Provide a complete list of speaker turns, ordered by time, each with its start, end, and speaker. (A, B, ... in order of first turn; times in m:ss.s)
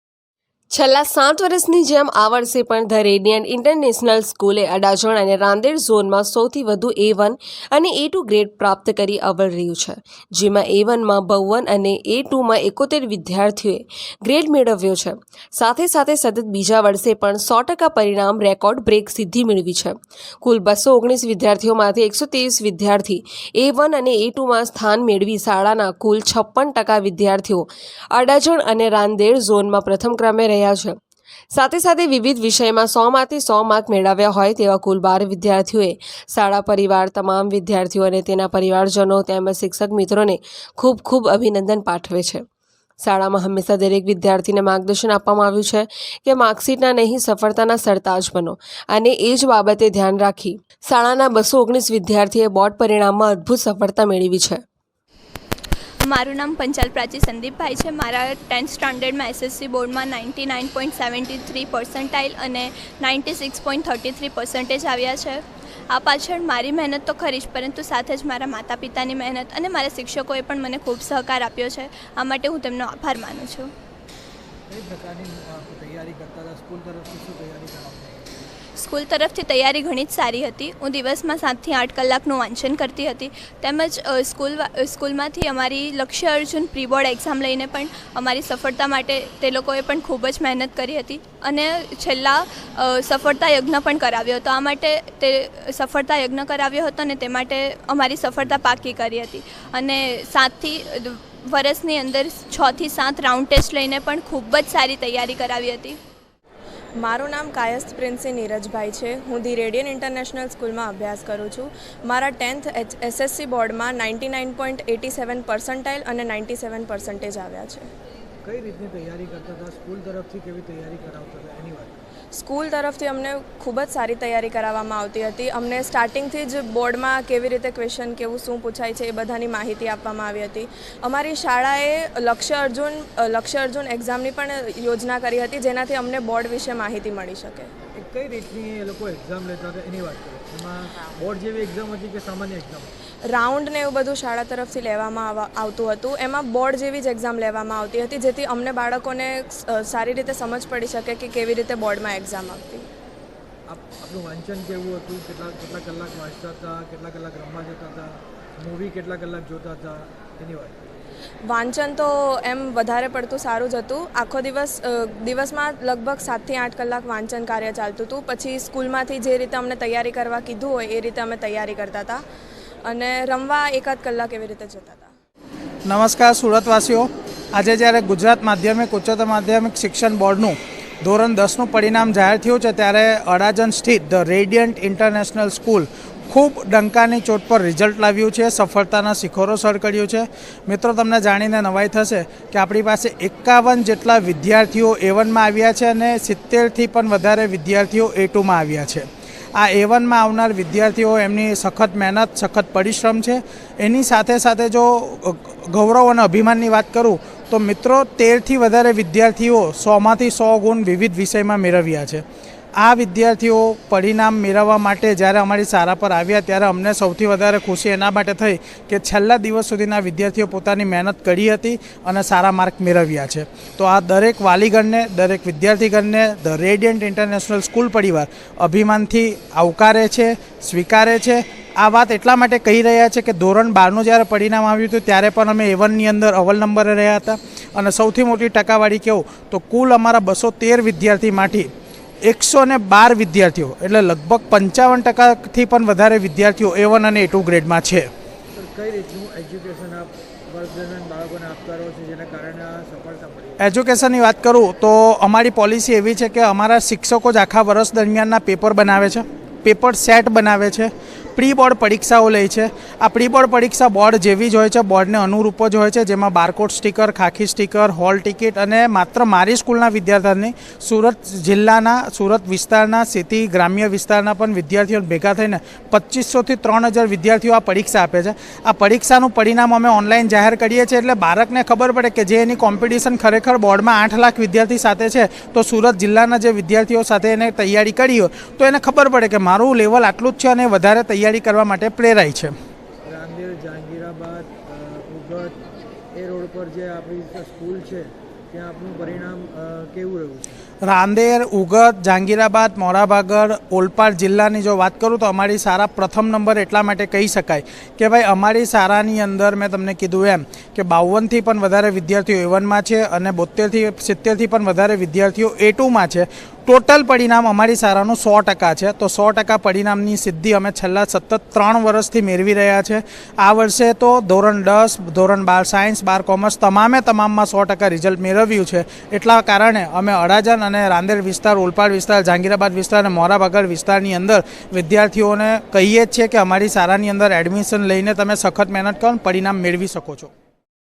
0:00.7-0:31.0 A
0:31.5-0:42.4 A
0:43.0-0:54.6 A
0:56.0-1:13.7 B
1:14.7-1:18.5 C
1:18.8-1:46.0 B
1:47.0-1:57.8 D
1:58.4-2:01.9 C
2:02.3-2:17.7 D
2:18.0-2:22.9 C
2:23.3-2:32.8 D
2:33.7-2:40.8 C
2:41.5-2:52.2 D
2:52.8-2:55.1 D
2:55.8-3:32.2 E
3:32.8-4:01.7 E
4:02.2-4:08.1 E
4:08.5-4:13.6 C
4:13.6-4:52.5 E
4:53.0-4:55.6 C
4:56.1-5:00.6 C
5:00.8-5:40.3 E